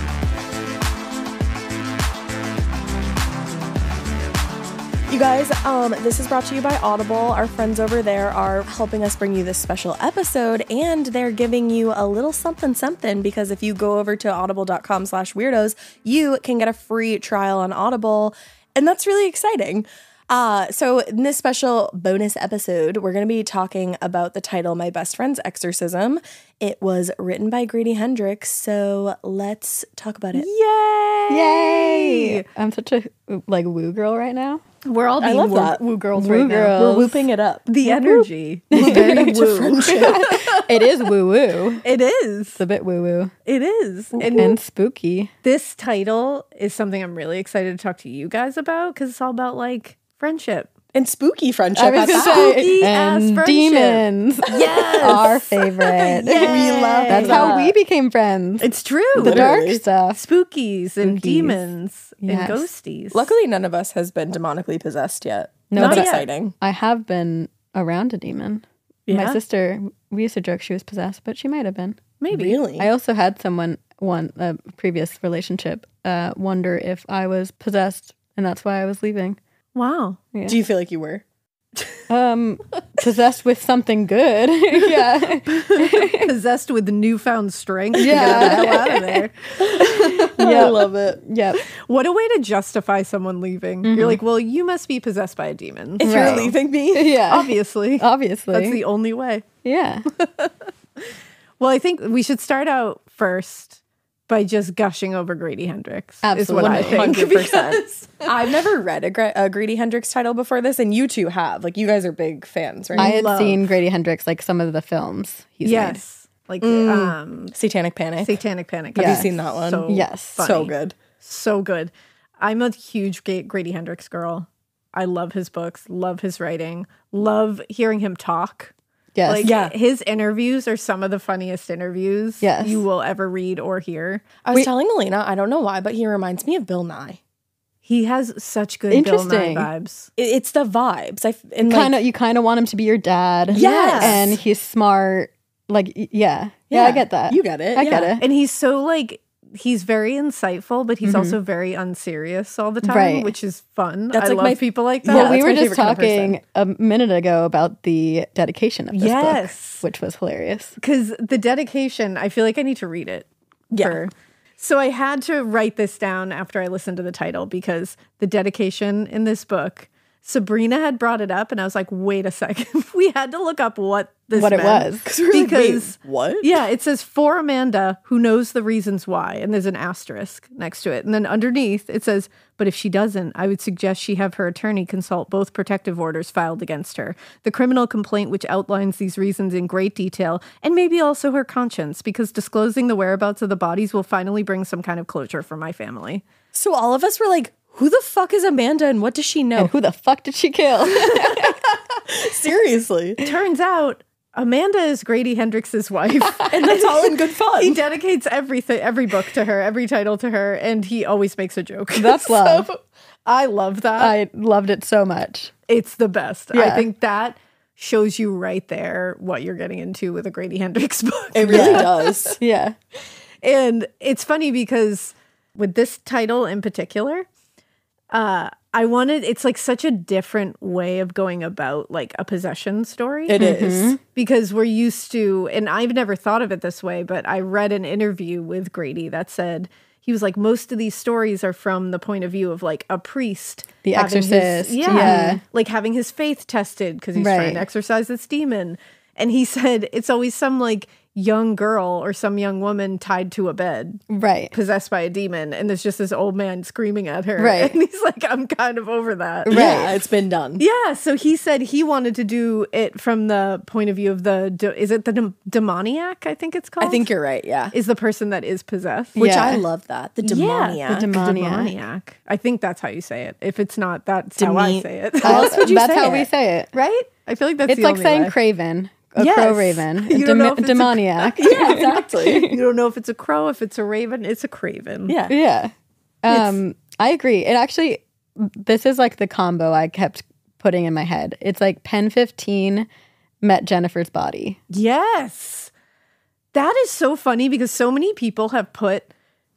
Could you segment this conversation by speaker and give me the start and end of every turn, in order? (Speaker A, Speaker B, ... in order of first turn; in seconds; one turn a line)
Speaker A: 5.1-30.5
Speaker B: 30.3-32.4
Speaker C: 31.3-34.6
Speaker B: 34.8-36.8
Speaker A: 35.2-40.4
Speaker C: 36.2-37.2
Speaker B: 37.7-40.9
Speaker C: 38.7-41.8
Speaker B: 41.8-42.6
Speaker C: 42.6-43.3
Speaker B: 43.5-44.5
Speaker A: 44.1-44.5
Speaker C: 44.3-45.3
Speaker B: 45.4-50.7
Speaker A: 50.9-52.9
Speaker C: 51.8-60.2
Speaker B: 52.0-57.7
Speaker A: 54.6-55.5
Speaker A: 56.2-57.7
Speaker B: 58.6-59.5
Speaker A: 59.1-59.8
Speaker B: 60.1-63.3
Speaker C: 61.0-61.6
Speaker C: 62.2-62.7
Speaker A: 63.1-66.5
Speaker C: 65.7-79.4
Speaker B: 65.8-66.3
Speaker A: 69.1-69.4
Speaker A: 72.3-72.9
Speaker B: 72.3-72.6
Speaker B: 79.8-80.2
Speaker A: 80.5-81.2
Speaker C: 82.1-86.3
Speaker B: 85.5-90.7
Speaker C: 88.0-89.3
Speaker A: 88.0-89.0
Speaker A: 89.6-91.2
Speaker C: 89.8-91.6
Speaker B: 91.6-96.5
Speaker C: 93.8-94.2
Speaker A: 96.0-97.2
Speaker C: 96.0-98.8
Speaker B: 97.3-99.5
Speaker C: 99.6-100.0
Speaker B: 101.6-108.3
Speaker C: 106.2-107.1
Speaker A: 106.5-113.2
Speaker B: 112.9-113.6
Speaker C: 113.0-116.0
Speaker B: 115.6-117.5
Speaker A: 116.6-118.4
Speaker B: 118.2-128.7
Speaker A: 118.9-120.9
Speaker C: 119.0-119.3
Speaker C: 119.9-120.4
Speaker C: 129.2-129.5
Speaker B: 129.2-134.2
Speaker A: 129.4-129.7
Speaker C: 132.4-132.8
Speaker A: 134.4-137.2
Speaker B: 137.8-140.1
Speaker C: 138.9-139.7
Speaker A: 140.2-142.0
Speaker C: 141.6-148.2
Speaker B: 143.5-144.2
Speaker A: 143.5-144.4
Speaker A: 146.7-148.1
Speaker B: 148.2-155.4
Speaker C: 151.0-151.4
Speaker C: 152.8-153.3
Speaker A: 154.1-156.4
Speaker C: 155.1-160.8
Speaker B: 158.9-159.8
Speaker B: 160.8-163.3
Speaker A: 163.7-164.0
Speaker B: 163.8-196.2
Speaker C: 174.3-175.1
Speaker A: 175.1-176.6
Speaker A: 196.5-199.7
Speaker C: 199.6-201.6
Speaker A: 202.1-203.2
Speaker B: 203.2-212.7
Speaker A: 206.5-207.8
Speaker C: 211.9-212.7
Speaker B: 213.2-214.1
Speaker C: 214.0-215.5
Speaker B: 215.7-222.3
Speaker C: 216.5-216.9
Speaker A: 221.3-222.4
Speaker C: 221.5-222.8
Speaker B: 223.4-227.2
Speaker B: 228.1-259.9
Speaker A: 233.3-233.9
Speaker C: 233.4-234.0
Speaker C: 243.8-245.4
Speaker A: 244.9-245.3
Speaker C: 247.2-247.6
Speaker C: 254.1-254.5
Speaker C: 257.4-257.8
Speaker C: 259.4-259.9
Speaker A: 259.5-260.6
Speaker B: 260.6-267.1
Speaker A: 266.8-267.7
Speaker B: 267.7-269.2
Speaker C: 269.2-269.6
Speaker A: 269.2-271.1
Speaker B: 270.2-275.6
Speaker C: 270.9-271.7
Speaker A: 274.4-276.3
Speaker C: 275.2-276.7
Speaker B: 276.7-278.4
Speaker C: 277.6-282.6
Speaker B: 279.2-279.9
Speaker A: 280.1-282.5
Speaker B: 282.4-285.2
Speaker A: 285.1-285.3
Speaker C: 285.3-285.7
Speaker C: 286.2-292.9
Speaker C: 293.4-294.6
Speaker B: 294.7-295.7
Speaker B: 296.5-299.1